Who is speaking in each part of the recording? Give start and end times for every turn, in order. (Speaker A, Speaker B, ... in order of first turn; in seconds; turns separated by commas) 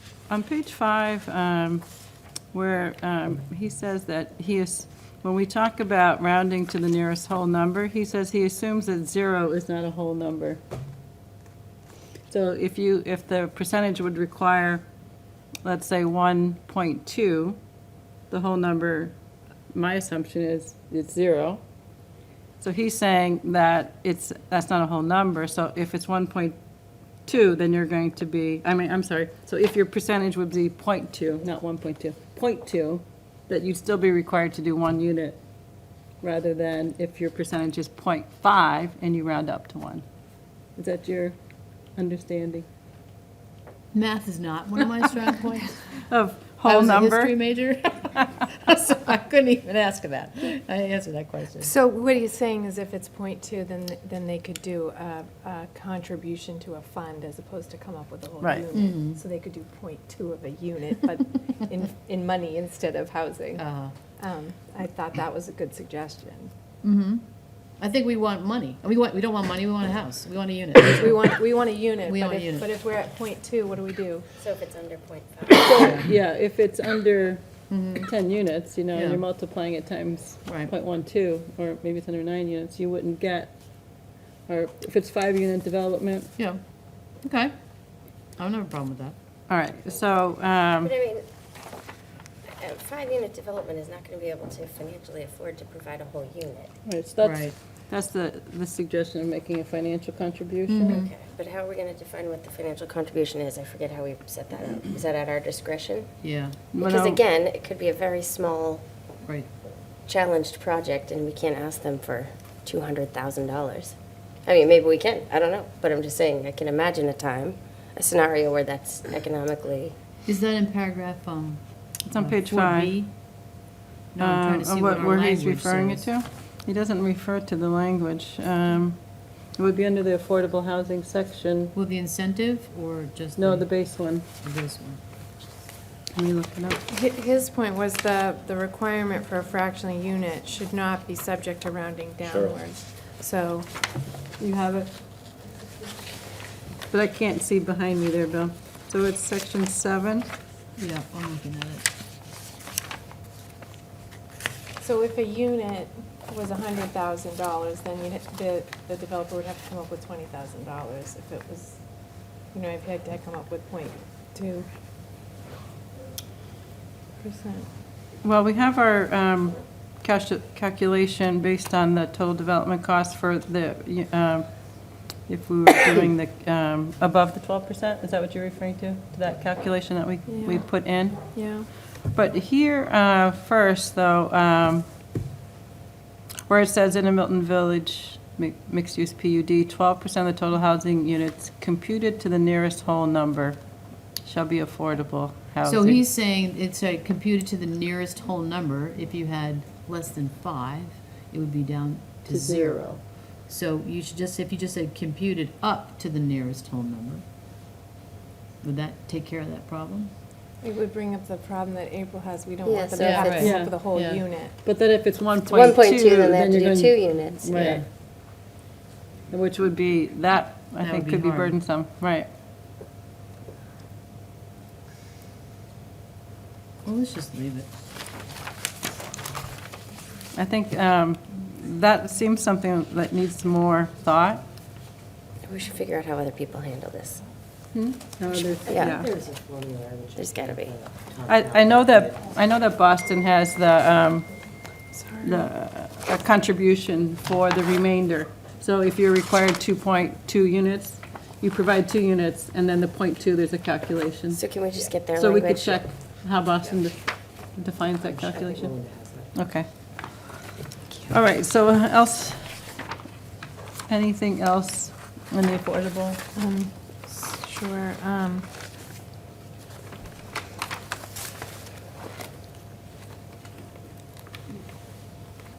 Speaker A: 0.3-1.8, Speaker A: 2.5-10.6, Speaker A: 12.3-14.8, Speaker A: 15.7-17.6, Speaker A: 18.3-19.1, Speaker A: 19.7-21.6, Speaker A: 22.6-26.6, Speaker A: 27.3-35.4, Speaker A: 36.2-40.0, Speaker A: 40.8-41.4, Speaker A: 42.0-42.7, Speaker B: 43.9-45.8, Speaker A: 46.1-47.3, Speaker B: 46.6-51.7, Speaker C: 51.6-63.6, Speaker A: 58.4-58.7, Speaker B: 58.7-59.2, Speaker B: 63.6-63.9, Speaker C: 64.2-66.5, Speaker B: 66.8-67.2, Speaker B: 67.8-71.3, Speaker C: 71.0-74.2, Speaker B: 72.0-72.7, Speaker D: 74.4-75.8, Speaker A: 75.5-77.4, Speaker B: 75.8-76.1, Speaker B: 77.7-78.1, Speaker A: 78.0-83.5, Speaker B: 78.9-79.2, Speaker B: 80.5-80.7, Speaker A: 84.5-86.3, Speaker B: 87.2-87.5, Speaker B: 88.4-89.2, Speaker A: 89.5-90.9, Speaker D: 90.8-91.2, Speaker D: 92.6-96.7, Speaker A: 96.9-101.0, Speaker B: 97.2-97.5, Speaker B: 100.7-101.1, Speaker D: 100.9-106.1, Speaker B: 106.2-106.6, Speaker A: 106.7-107.2, Speaker D: 106.8-108.8, Speaker D: 110.1-114.0, Speaker D: 114.5-120.0, Speaker B: 120.2-123.1, Speaker A: 122.1-122.9, Speaker B: 124.1-126.1, Speaker A: 124.2-129.0, Speaker A: 129.5-131.7, Speaker B: 131.8-133.8, Speaker A: 133.4-134.2, Speaker B: 134.4-135.0, Speaker A: 136.2-136.8, Speaker C: 136.9-143.7, Speaker A: 144.4-144.9, Speaker A: 146.9-150.3, Speaker B: 150.8-151.9, Speaker C: 154.8-161.8, Speaker C: 162.5-164.7, Speaker C: 167.2-167.7, Speaker A: 168.2-174.6, Speaker A: 175.2-181.3, Speaker C: 180.3-181.7, Speaker A: 182.1-184.9, Speaker A: 186.5-193.6, Speaker A: 194.2-196.0, Speaker B: 195.6-207.2, Speaker A: 202.3-203.0, Speaker B: 208.6-210.1, Speaker C: 210.6-214.6, Speaker D: 212.7-213.5, Speaker B: 213.0-214.2, Speaker A: 213.4-217.8, Speaker D: 215.5-217.8, Speaker B: 217.5-217.8, Speaker A: 219.3-222.3, Speaker B: 220.8-221.6, Speaker B: 226.8-227.7, Speaker A: 230.3-234.4, Speaker D: 235.4-237.2, Speaker A: 237.7-239.1, Speaker D: 238.7-239.0, Speaker E: 238.7-242.0, Speaker D: 240.2-240.7, Speaker A: 241.3-244.3, Speaker C: 244.9-245.5, Speaker A: 245.2-254.4, Speaker D: 254.3-255.8, Speaker A: 255.2-258.8, Speaker E: 258.1-259.2, Speaker A: 259.3-259.7, Speaker A: 261.1-262.6, Speaker A: 263.9-266.2, Speaker C: 266.4-268.5